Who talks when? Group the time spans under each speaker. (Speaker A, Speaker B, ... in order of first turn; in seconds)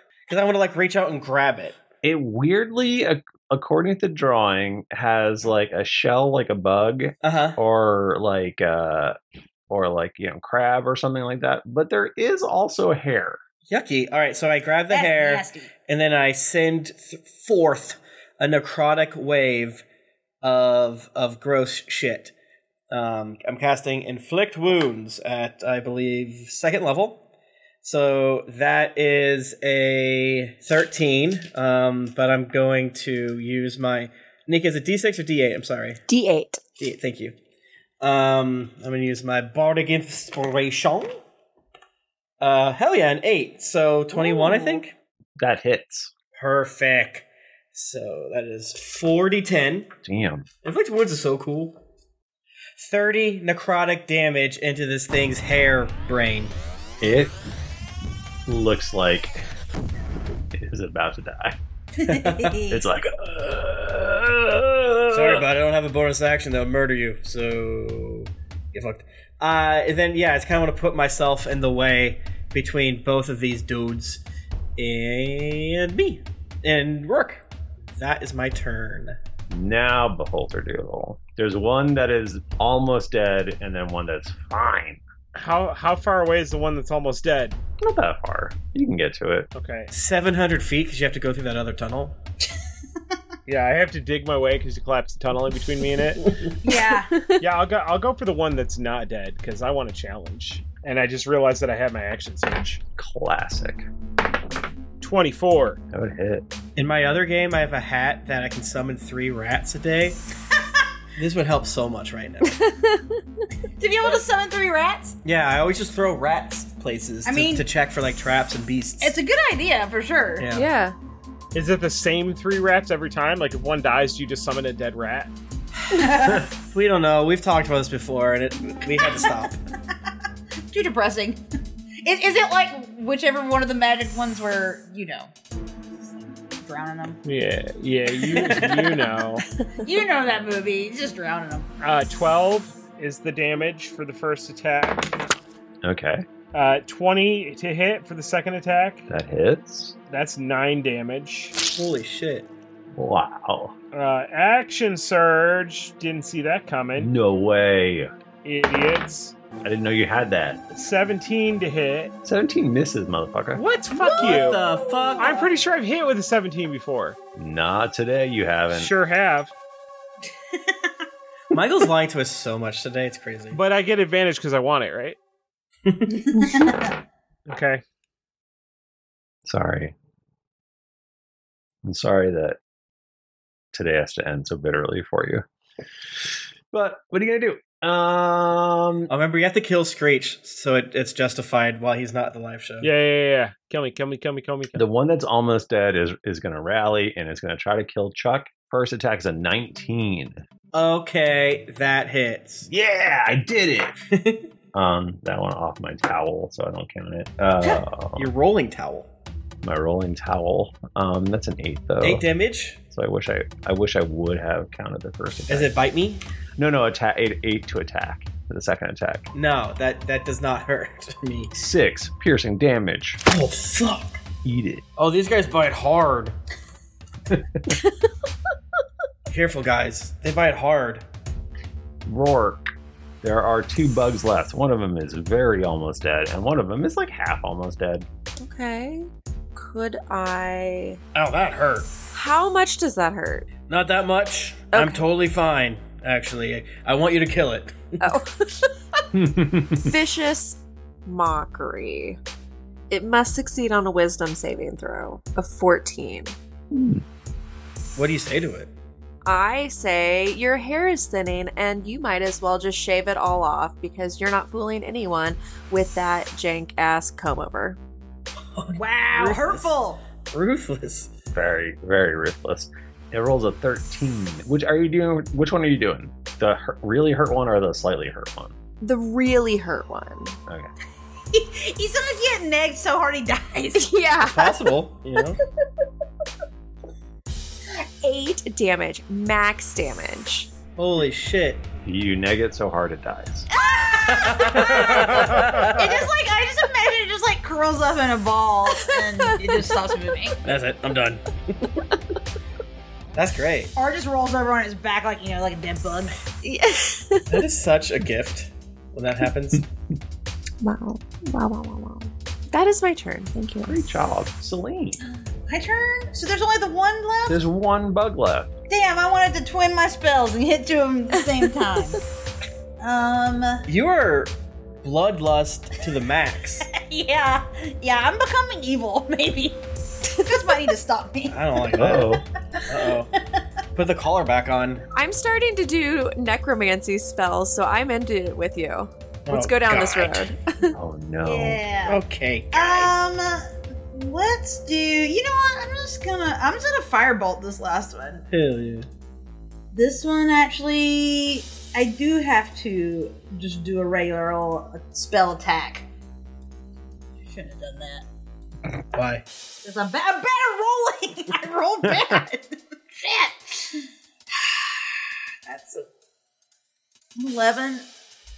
Speaker A: 0.3-1.8, 7.2-7.6, 13.7-19.8, 20.4-22.3, 22.9-27.2, 27.8-36.0, 36.8-37.4, 38.0-41.1, 42.4-45.0, 46.4-49.9, 50.6-51.8, 52.8-56.6, 62.0-62.7, 65.1-74.2, 74.8-79.2, 89.9-92.2, 106.8-110.2, 111.2-112.6, 115.2-119.2, 120.4-120.7, 125.9-129.6, 138.3-138.9, 151.7-152.5, 164.0-165.5, 171.5-173.6, 175.9-176.4, 189.1-192.9, 200.7-202.7, 204.1-204.4, 208.2-209.1, 212.0-212.8, 215.5-216.2, 219.3-221.5, 223.3-224.2, 225.0-226.4, 229.3-231.0, 241.2-241.9, 243.7-248.0, 258.0-258.7, 268.6-271.1, 284.2-285.4, 290.8-291.6, 294.1-296.1, 300.4-301.7, 303.1-303.7, 307.3-309.6, 323.7-324.3, 324.8-326.7, 331.3-333.1, 333.8-334.8, 339.3-340.3, 341.9-342.9, 348.3-348.9, 358.9-359.2
Speaker B: 2.0-9.2, 9.7-13.4, 45.4-46.1, 50.0-50.5, 57.0-57.4, 58.5-59.4, 60.5-61.6, 62.7-65.5, 79.5-85.0, 87.8-89.5, 103.0-103.8, 105.9-106.5, 145.8-146.2, 149.1-150.0, 152.9-153.7, 157.0-158.1, 159.6-160.6, 162.2-163.6, 167.4-168.9, 179.5-179.9, 181.8-182.6, 183.7-185.4, 186.2-189.1, 194.8-200.4, 202.7-204.0, 204.7-208.3, 209.6-212.2, 212.9-215.7, 216.6-219.3, 221.6-223.2, 224.4-224.8, 227.3-227.6, 232.1-232.7, 233.2-238.1, 249.1-249.9, 256.7-257.0, 271.3-278.5, 291.9-293.5, 313.6-315.0, 317.3-318.5, 331.8-332.2, 340.7-341.7, 361.9-362.2
Speaker C: 14.9-15.7, 62.0-62.9, 96.6-97.1, 113.8-115.2, 117.2-117.7, 119.0-120.5, 125.9-126.5, 129.0-129.3, 130.7-131.4, 132.0-135.3, 136.6-137.2, 139.8-141.7, 164.0-165.2, 176.3-176.9, 268.8-270.0, 281.3-284.0, 293.5-294.8, 295.7-300.4, 303.8-306.2, 315.1-317.4, 318.7-322.0, 322.8-323.6, 326.7-329.6, 330.2-331.8, 341.2-348.2, 349.7-355.9, 357.3-358.1, 359.6-365.9, 367.2-367.9
Speaker D: 36.1-36.6, 44.3-44.8, 97.1-97.4, 112.6-113.2, 120.5-121.0, 238.4-241.0, 242.1-243.5, 244.7-245.0, 248.0-248.7, 249.9-252.2, 252.9-256.4, 259.2-267.8, 278.8-280.4, 283.8-284.6, 288.0-290.5, 298.8-299.9, 306.4-307.3, 310.6-313.7, 334.9-340.8
Speaker E: 85.3-87.6, 89.5-89.9, 93.5-96.3, 97.4-102.8, 105.0-105.8, 121.5-125.3, 137.2-139.4, 141.8-145.2, 146.5-149.1, 150.1-151.6, 153.9-157.1, 158.4-159.4, 160.7-162.1, 163.5-164.6, 165.2-167.2, 168.7-169.5, 173.5-175.2, 177.5-177.8, 192.8-194.8